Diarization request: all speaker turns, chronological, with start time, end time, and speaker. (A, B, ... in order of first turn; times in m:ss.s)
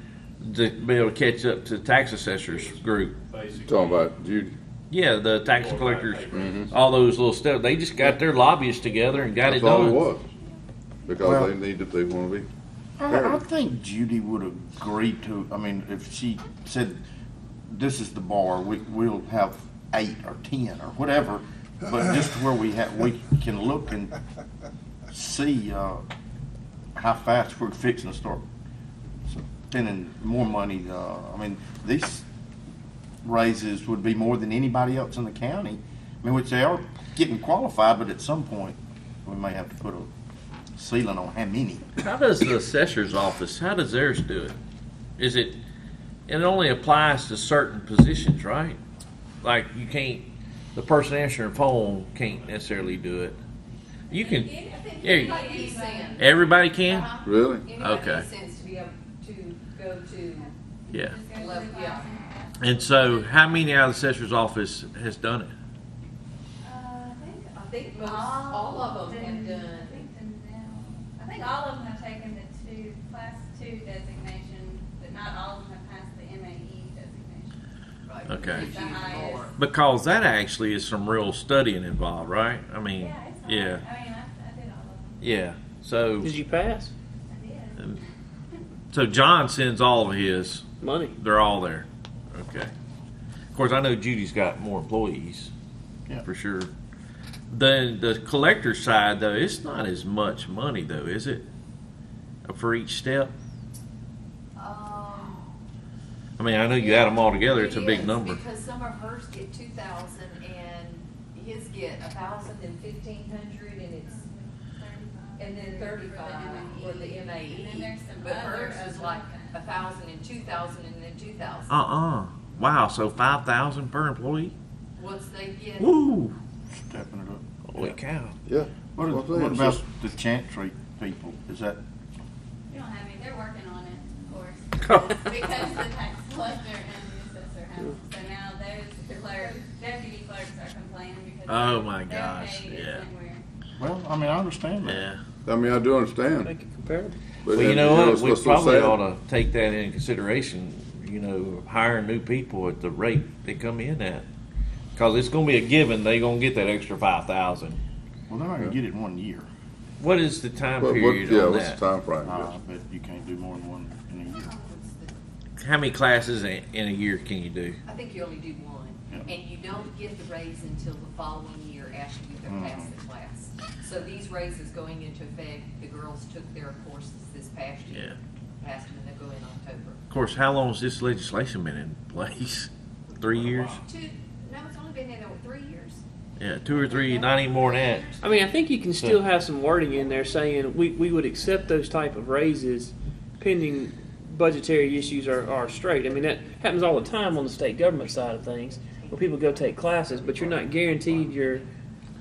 0:00.4-0:03.2 A
0:02.3-0:04.1 B
0:03.6-0:04.5 C
0:04.9-0:10.0 A
0:05.4-0:06.7 B
0:06.3-0:06.7 C
0:09.4-0:10.2 C
0:11.1-0:12.5 C
0:11.2-0:11.5 D
0:13.0-0:17.0 D
0:13.1-0:13.4 C
0:17.7-0:24.2 D
0:25.1-0:26.0 D
0:27.0-0:28.4 D
0:29.3-0:32.3 D
0:33.2-0:40.1 D
0:40.8-0:41.8 D
0:42.0-0:44.6 A
0:45.2-0:45.6 A
0:46.3-0:48.8 A
0:49.4-0:53.4 A
0:54.1-0:57.1 A
0:54.1-0:56.2 E
0:55.1-0:56.5 F
0:56.8-1:00.5 E
0:57.2-0:57.7 C
0:57.8-0:58.3 A
1:00.3-1:03.4 F
1:00.9-1:01.2 A
1:01.3-1:02.1 E
1:02.6-1:05.5 A
1:06.6-1:17.5 F
1:07.0-1:10.1 E
1:18.1-1:19.6 E
1:18.3-1:18.7 A
1:18.5-1:19.5 F
1:19.6-1:23.9 A
1:22.9-1:25.3 F
1:25.2-1:26.4 A
1:26.2-1:26.9 G
1:27.3-1:28.0 F
1:28.9-1:32.7 A
1:30.8-1:31.2 G
1:33.5-1:35.5 A
1:36.2-1:36.7 A
1:37.5-1:41.5 A
1:42.4-1:43.3 A
1:44.6-1:45.4 E
1:46.4-1:48.4 A
1:46.8-1:54.3 E
1:54.1-1:59.8 F
1:55.4-2:01.7 E
2:01.7-2:04.6 A
2:05.0-2:05.9 E
2:05.8-2:06.4 A
2:06.7-2:08.0 D
2:07.7-2:08.4 A
2:08.5-2:09.8 C
2:09.0-2:11.8 D
2:12.7-2:23.4 F
2:21.5-2:23.1 A
2:23.8-2:25.0 D
2:24.8-2:25.2 A
2:25.4-2:26.5 C
2:26.4-2:27.2 G
2:27.4-2:29.0 C
2:27.5-2:34.3 A
2:35.0-2:37.8 A
2:38.3-2:39.5 D
2:40.0-2:41.8 A
2:40.8-2:42.5 C
2:42.2-2:44.5 D
2:44.5-2:45.2 E
2:45.6-2:47.8 A
2:47.8-3:00.0 E
2:52.5-2:52.9 D
2:57.9-2:58.2 A
3:00.1-3:03.8 A
3:03.8-3:06.0 E
3:06.4-3:08.1 A
3:06.7-3:08.6 E
3:08.2-3:21.6 G
3:08.9-3:09.2 A
3:15.4-3:21.8 E